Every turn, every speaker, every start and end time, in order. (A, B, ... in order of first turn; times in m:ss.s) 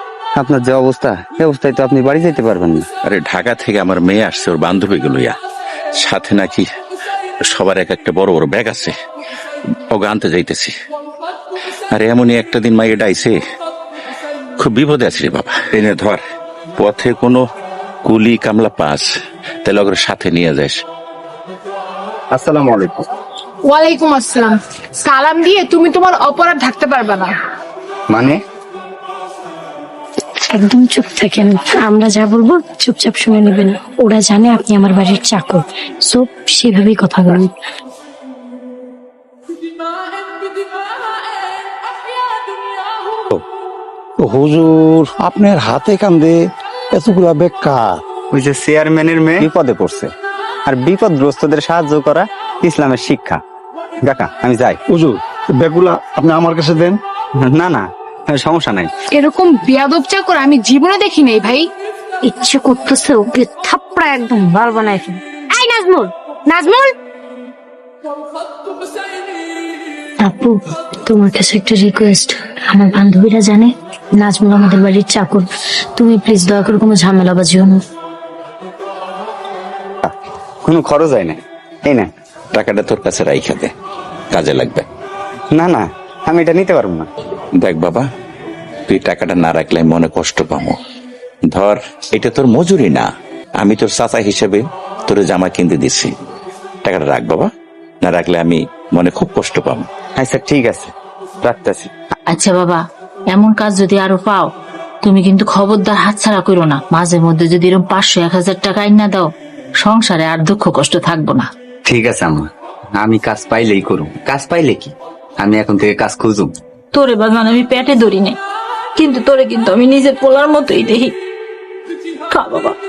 0:00.4-0:02.9 A
0:03.0-0:05.3 B
0:06.0-0:06.7 B
0:07.5-0:08.9 B
0:09.9-0:10.7 B
0:11.9-0:13.4 B
0:14.6-0:16.2 B
0:16.8-0:17.4 B
0:18.0-0:19.0 B
0:19.6-0:20.8 B
0:22.3-0:23.0 A
0:23.7-0:27.3 C
0:28.1-0:28.4 A
0:30.6-0:37.5 D
0:44.2-0:46.4 E
0:46.9-0:48.0 E
0:48.3-0:50.1 A
0:50.7-0:53.4 A
0:54.0-0:54.8 A
0:54.9-0:57.0 E
0:57.4-0:58.9 A
0:59.1-1:01.7 C
1:02.2-1:06.9 D
1:10.2-1:10.6 D
1:11.1-1:13.7 D
1:14.2-1:17.8 D
1:20.0-1:22.1 A
1:22.5-1:23.7 B
1:24.3-1:24.8 B
1:25.5-1:27.1 A
1:27.6-1:28.1 B
1:28.9-1:30.8 B
1:31.5-1:36.1 B
1:36.8-1:37.5 B
1:38.0-1:39.9 B
1:40.2-1:41.9 A
1:42.3-1:44.5 F
1:45.0-1:51.5 F
1:51.8-1:56.5 A
1:56.9-1:58.4 F
1:59.0-2:01.1 F
2:02.3-2:02.8 F